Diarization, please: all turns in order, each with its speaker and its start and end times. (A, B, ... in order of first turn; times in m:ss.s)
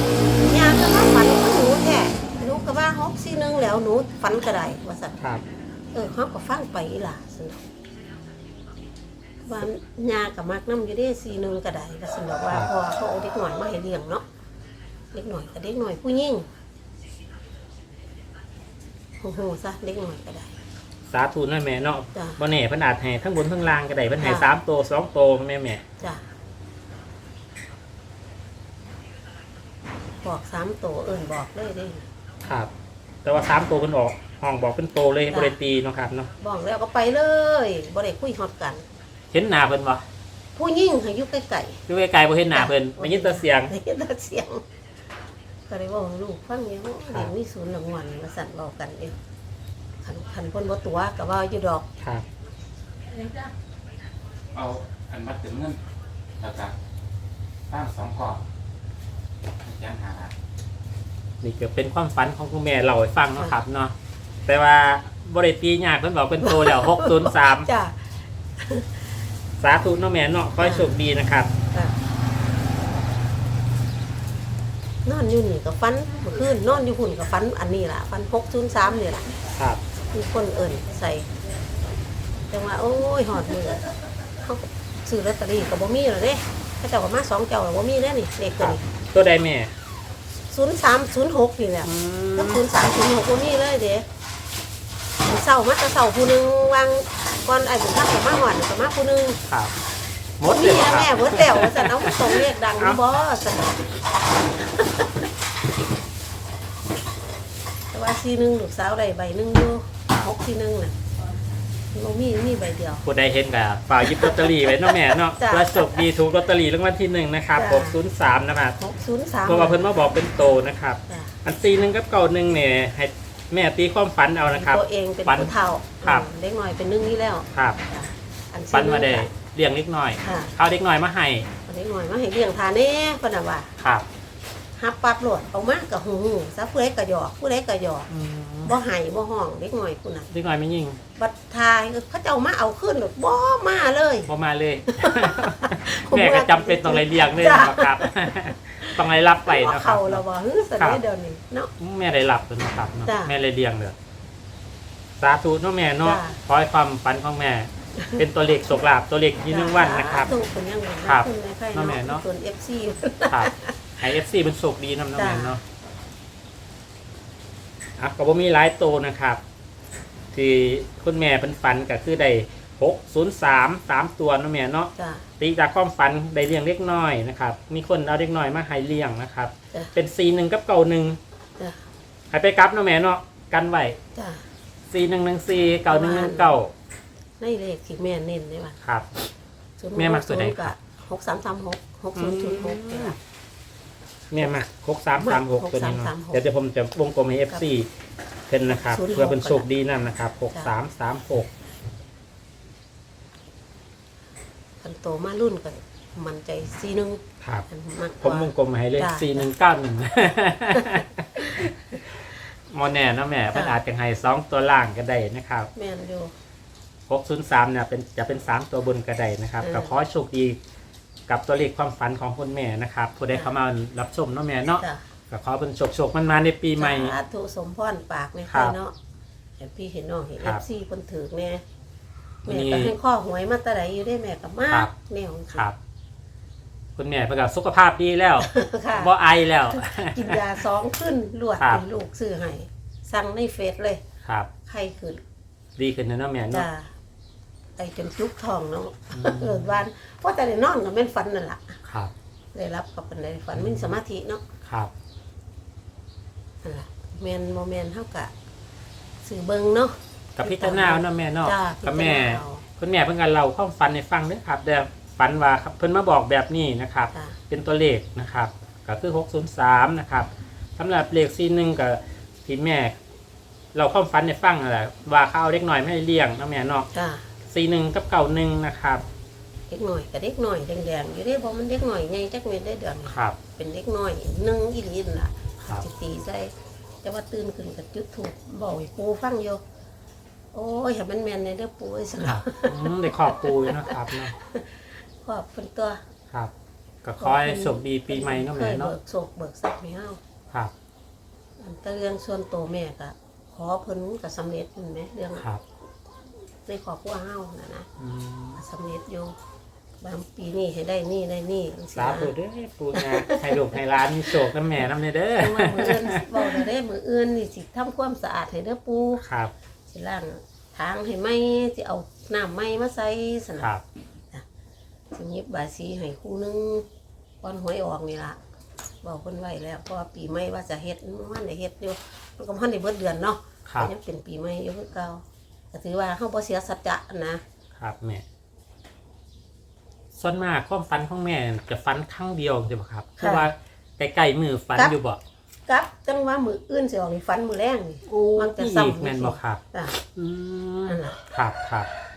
0:00.4-0:05.2 A
0:05.9-0:07.6 A
0:09.4-0:14.2 A
0:15.1-0:16.5 A
0:19.2-0:20.5 A
0:21.1-0:25.8 B
0:24.2-0:24.5 A
0:30.2-0:32.0 A
0:32.4-0:32.7 B
0:33.2-0:36.3 B
0:35.3-0:35.6 A
0:36.4-0:38.8 A
0:39.3-0:40.0 B
0:40.5-0:41.8 A
0:41.9-0:43.7 B
0:42.5-0:44.6 A
0:45.7-0:49.1 A
0:50.0-0:51.9 A
0:52.0-0:52.2 B
0:54.5-0:55.8 C
0:56.4-0:56.7 C
0:57.7-0:58.4 C
0:59.6-1:00.3 C
1:01.4-1:03.9 B
1:04.4-1:07.7 B
1:06.4-1:08.0 A
1:08.6-1:09.0 A
1:09.6-1:11.5 B
1:10.6-1:10.9 A
1:15.0-1:19.3 A
1:19.5-1:19.8 B
1:20.1-1:21.3 A
1:22.5-1:23.8 A
1:24.4-1:28.8 A
1:28.6-1:29.7 B
1:30.5-1:34.0 A
1:31.8-1:32.8 B
1:35.3-1:39.4 A
1:40.4-1:43.0 B
1:40.4-1:43.8 A
1:44.8-1:45.2 A
1:47.9-1:51.2 A
1:51.9-1:53.0 A
1:53.0-1:58.8 B
1:54.1-1:56.0 A
1:57.6-1:58.0 A
1:58.8-1:59.8 A
1:59.4-2:05.5 B
2:01.1-2:01.3 A
2:04.5-2:09.3 A
2:07.5-2:07.8 B
2:08.7-2:11.5 B
2:10.2-2:10.5 A
2:11.7-2:13.7 A
2:13.8-2:14.0 B
2:14.8-2:18.1 A
2:18.1-2:18.8 B
2:18.6-2:20.3 A
2:20.3-2:21.0 B
2:21.2-2:24.3 A
2:24.3-2:30.2 B
2:24.9-2:31.7 A
2:31.8-2:33.9 B
2:33.0-2:33.3 A
2:35.2-2:40.3 B
2:36.0-2:36.4 A
2:39.5-2:44.0 A
2:41.0-2:42.2 B
2:43.3-2:45.6 B
2:45.2-2:45.6 A
2:48.0-2:49.4 B
2:50.3-3:01.2 B
2:55.0-2:55.2 A
3:01.6-3:01.8 A
3:02.3-3:04.0 B
3:04.1-3:04.4 A
3:04.9-3:06.7 B
3:05.9-3:06.6 A
3:07.4-3:08.8 A
3:09.8-3:13.2 A
3:10.0-3:10.7 B
3:12.2-3:13.2 B
3:14.3-3:17.9 B
3:15.2-3:16.4 A
3:18.5-3:21.5 B
3:18.7-3:19.7 A
3:24.8-3:29.5 A
3:28.2-3:31.7 B
3:30.8-3:31.7 A
3:32.7-3:35.7 B
3:33.5-3:33.8 A
3:35.7-3:36.3 A
3:37.1-3:40.6 B
3:39.6-3:40.0 A
3:41.3-3:47.2 B
3:46.8-3:48.9 A
3:48.5-3:48.8 B
3:49.6-3:51.6 A
3:52.4-3:52.9 B
3:52.5-3:55.6 A
3:57.0-4:00.4 B
3:58.4-3:59.1 A
3:59.7-4:04.0 A
4:01.6-4:01.8 B
4:04.2-4:04.5 B
4:04.6-4:05.2 A
4:05.8-4:06.7 B
4:06.5-4:06.9 A
4:07.8-4:11.8 A
4:09.1-4:09.8 B
4:11.8-4:12.1 B
4:12.5-4:14.4 A
4:13.5-4:13.9 B
4:14.6-4:14.9 B
4:16.6-4:18.3 A
4:19.2-4:22.6 A
4:20.4-4:32.9 B
4:33.7-4:36.8 B
4:36.9-4:37.3 A
4:37.5-4:39.0 B
4:39.7-4:46.5 A
4:43.1-4:43.4 B
4:47.0-4:49.6 A
4:50.5-4:56.0 A
4:52.2-4:54.3 B
4:57.0-4:58.9 B
4:57.2-5:00.2 A
5:01.6-5:05.4 A
5:05.4-5:05.6 B
5:06.6-5:07.9 A
5:08.0-5:08.6 B
5:08.6-5:09.3 A
5:10.0-5:12.3 A
5:12.0-5:16.6 B
5:12.9-5:13.5 A
5:15.4-5:19.2 A
5:19.2-5:19.5 B
5:19.9-5:23.7 A
5:25.1-5:26.8 A
5:27.4-5:28.4 A
5:29.0-5:37.4 A
5:33.6-5:33.9 B
5:37.7-5:38.2 B
5:40.1-5:45.2 B
5:43.2-5:43.5 A
5:45.7-5:50.0 A
5:48.0-5:49.6 B
5:50.1-5:51.9 B
5:50.9-5:51.2 A